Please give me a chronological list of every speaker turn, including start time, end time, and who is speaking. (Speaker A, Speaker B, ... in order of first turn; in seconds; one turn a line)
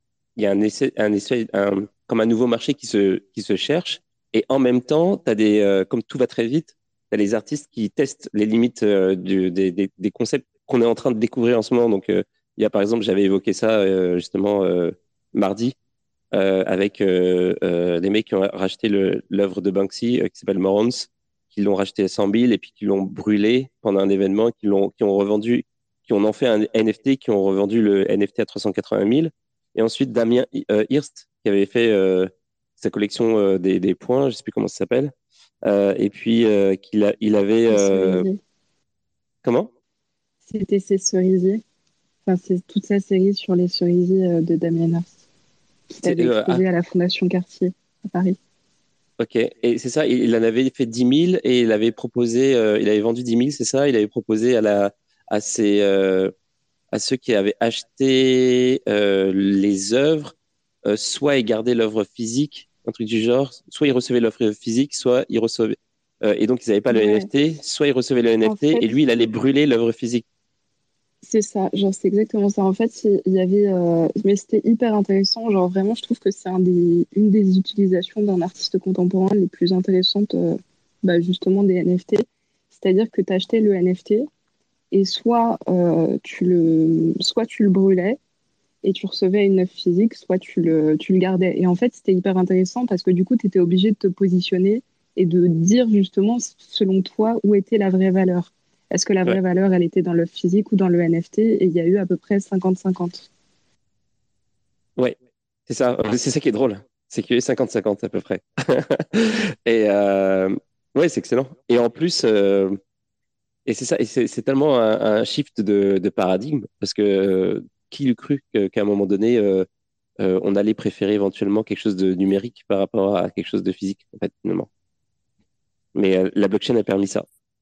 Speaker A: 0.4-15.8
Speaker A: 16.3-35.1
Speaker A: 35.6-38.3
Speaker B: 37.7-38.4
Speaker A: 39.4-39.7
Speaker B: 40.5-41.6
Speaker B: 42.3-45.1
Speaker B: 45.9-48.4
Speaker A: 46.0-46.6
Speaker A: 49.2-56.3
Speaker A: 56.9-60.3
Speaker A: 60.9-70.2
Speaker B: 66.9-67.3
Speaker B: 68.4-69.0
Speaker B: 71.2-84.3
Speaker B: 84.9-88.2
Speaker B: 88.8-103.3
Speaker A: 105.7-112.8
Speaker A: 113.7-119.7
Speaker A: 120.2-124.7
Speaker A: 126.0-127.3